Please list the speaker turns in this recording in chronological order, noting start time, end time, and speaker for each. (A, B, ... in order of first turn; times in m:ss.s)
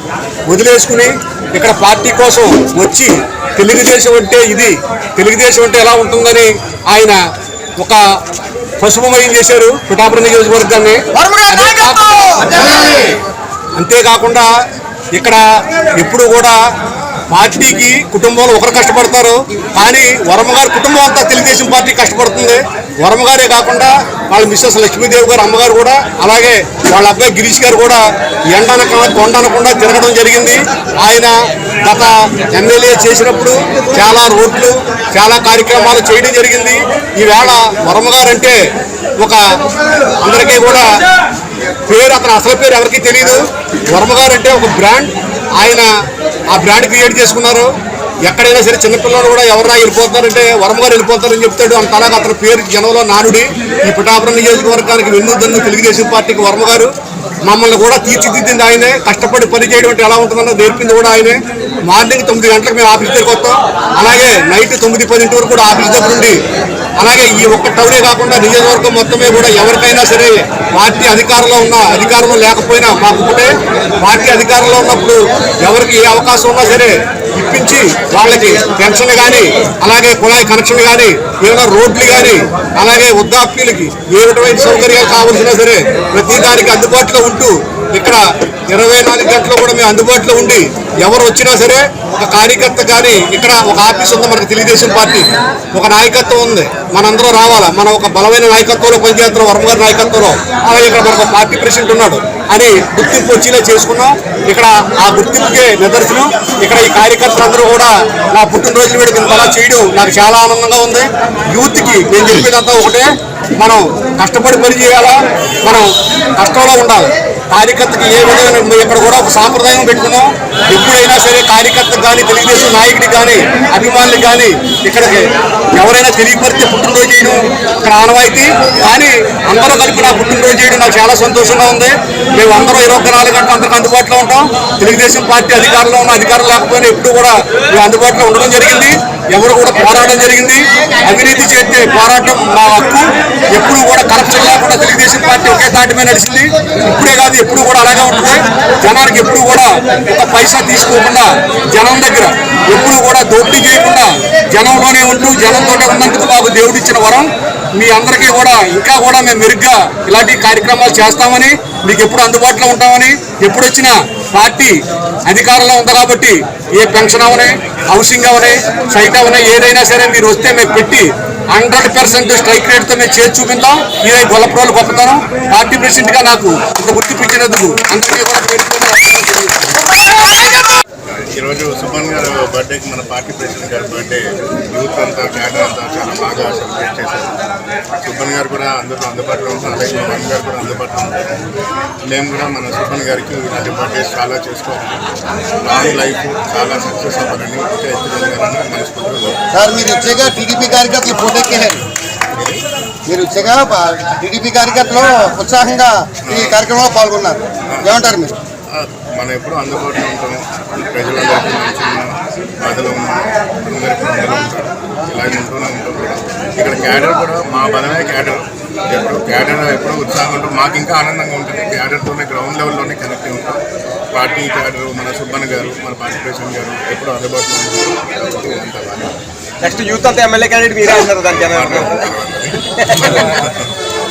0:00.5-0:07.2 A
0:08.8-0:12.6 A
0:11.1-0:13.1 B
0:13.8-0:14.5 A
0:15.1-0:15.4 A
0:16.0-0:16.6 A
0:17.3-0:31.3 A
0:31.8-0:38.6 A
0:40.2-0:40.9 A
0:41.9-0:45.9 A
0:46.5-0:47.7 A
0:48.2-0:56.9 A
0:57.5-1:06.4 A
1:07.0-1:53.1 A
1:53.6-3:00.2 A
3:01.3-3:07.4 C
3:08.0-3:11.2 C
3:12.1-3:15.0 C
3:15.6-3:19.4 C
3:19.5-3:21.8 B
3:22.4-3:22.6 C
3:23.1-3:28.3 B
3:26.2-3:26.6 C
3:28.7-3:43.6 C
3:44.1-3:49.1 C
3:49.6-3:52.1 D
3:50.8-3:53.7 C
3:52.7-3:53.2 D